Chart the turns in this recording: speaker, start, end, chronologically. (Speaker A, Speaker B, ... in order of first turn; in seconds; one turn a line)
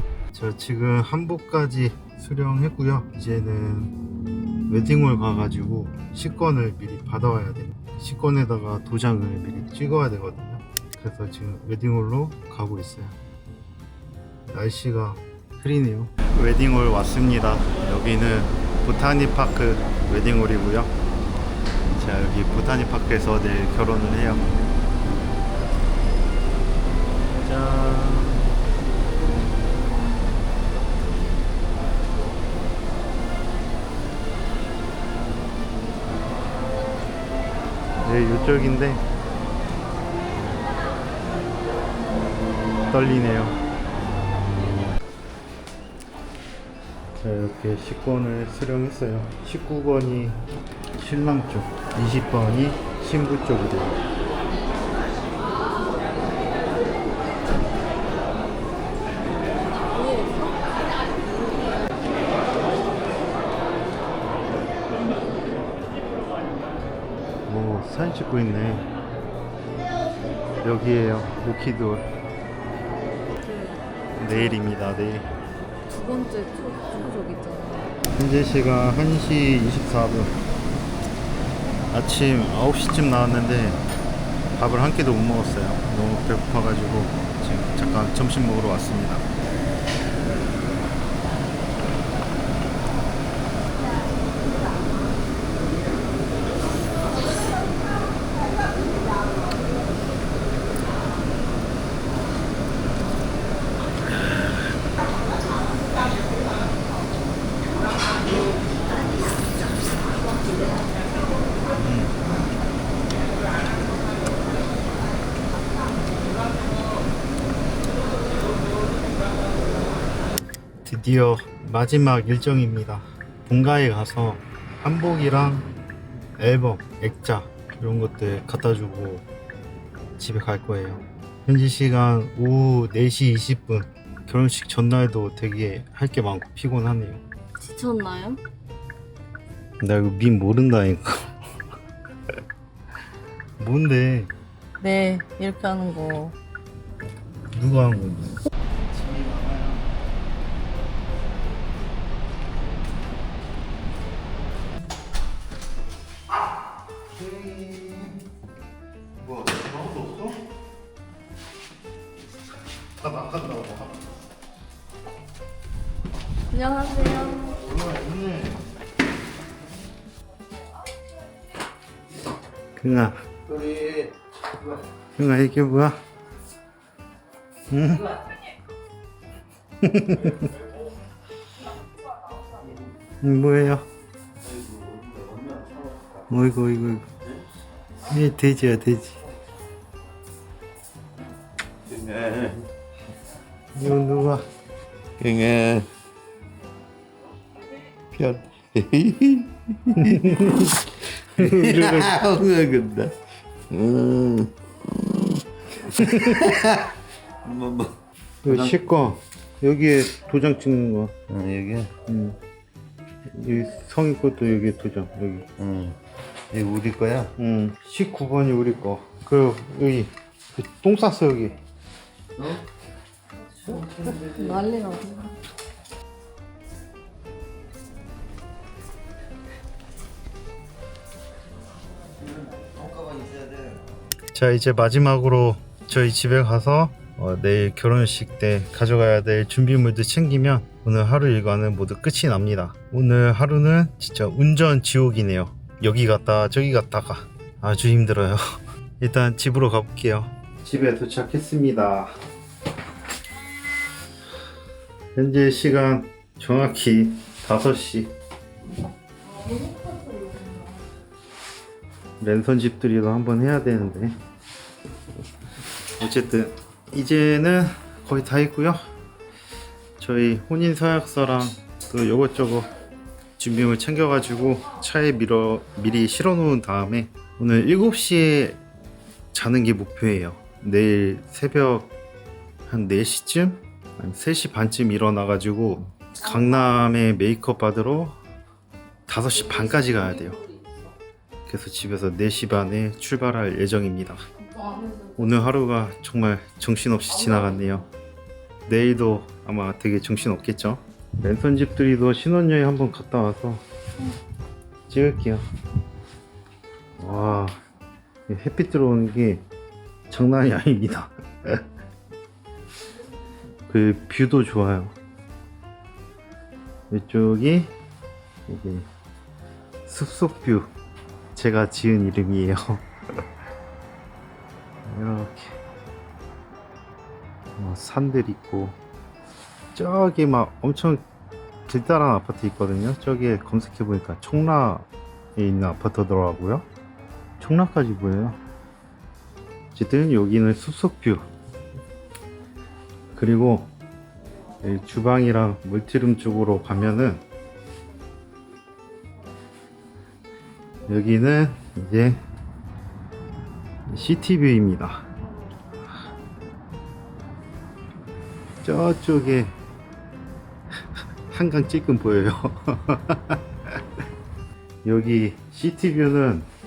Speaker A: 0.3-3.9
Speaker A: 4.7-13.2
Speaker A: 14.5-20.9
Speaker A: 21.9-24.7
Speaker A: 27.4-28.6
Speaker A: 38.0-39.0
Speaker A: 42.9-43.6
Speaker A: 47.2-50.4
Speaker A: 51.0-54.0
Speaker B: 59.9-61.8
Speaker A: 67.5-68.9
Speaker A: 70.6-72.1
Speaker B: 73.4-74.3
Speaker A: 74.2-75.3
Speaker B: 75.9-77.9
Speaker A: 78.2-80.4
Speaker A: 81.9-83.8
Speaker A: 84.5-89.3
Speaker A: 111.8-112.2
Speaker A: 120.8-125.7
Speaker A: 126.4-129.2
Speaker A: 130.2-137.2
Speaker B: 137.6-138.4
Speaker A: 139.8-141.3
Speaker A: 143.6-144.3
Speaker B: 144.8-146.3
Speaker A: 147.5-149.8
Speaker A: 157.1-158.2
Speaker A: 159.2-160.4
Speaker A: 163.0-164.1
Speaker B: 166.5-167.6
Speaker A: 167.4-168.6
Speaker A: 172.8-173.2
Speaker C: 173.5-174.1
Speaker A: 175.2-176.0
Speaker A: 177.7-178.2
Speaker A: 179.8-180.5
Speaker A: 183.2-183.9
Speaker C: 184.4-186.0
Speaker A: 186.3-187.1
Speaker A: 188.1-189.2
Speaker C: 191.9-192.6
Speaker A: 193.7-194.4
Speaker C: 195.2-195.9
Speaker C: 198.1-200.8
Speaker A: 200.0-202.2
Speaker C: 201.3-203.2
Speaker C: 203.7-204.5
Speaker A: 205.8-206.5
Speaker C: 205.9-206.9
Speaker C: 207.4-208.0
Speaker A: 208.4-211.1
Speaker C: 208.5-208.7
Speaker C: 211.3-211.9
Speaker A: 212.1-212.4
Speaker A: 213.3-215.5
Speaker C: 215.6-216.0
Speaker C: 216.5-217.3
Speaker A: 217.3-221.6
Speaker C: 223.7-224.5
Speaker B: 224.3-225.3
Speaker C: 232.6-233.8
Speaker A: 234.3-248.4
Speaker A: 249.0-252.1
Speaker A: 255.1-258.1
Speaker B: 259.4-260.7
Speaker A: 262.2-264.1
Speaker A: 266.0-268.8
Speaker A: 270.0-272.7
Speaker A: 273.4-278.6
Speaker A: 279.3-281.9
Speaker A: 282.7-288.2
Speaker A: 289.1-290.4
Speaker A: 291.4-294.2
Speaker A: 295.2-297.9
Speaker A: 298.6-303.6
Speaker A: 304.9-305.4
Speaker A: 307.0-307.6
Speaker A: 308.3-309.4
Speaker A: 310.1-311.6
Speaker A: 313.7-314.9
Speaker A: 316.9-317.7
Speaker A: 318.5-318.9
Speaker A: 319.9-320.7
Speaker A: 321.3-322.9
Speaker A: 324.9-325.6
Speaker A: 327.6-328.8
Speaker A: 329.7-331.0
Speaker A: 331.7-336.6
Speaker A: 337.4-338.4
Speaker A: 339.7-341.2
Speaker A: 343.1-343.7
Speaker A: 344.6-347.2
Speaker A: 350.9-352.2
Speaker A: 353.9-355.0
Speaker A: 358.6-359.5
Speaker A: 361.3-363.8
Speaker A: 364.8-366.5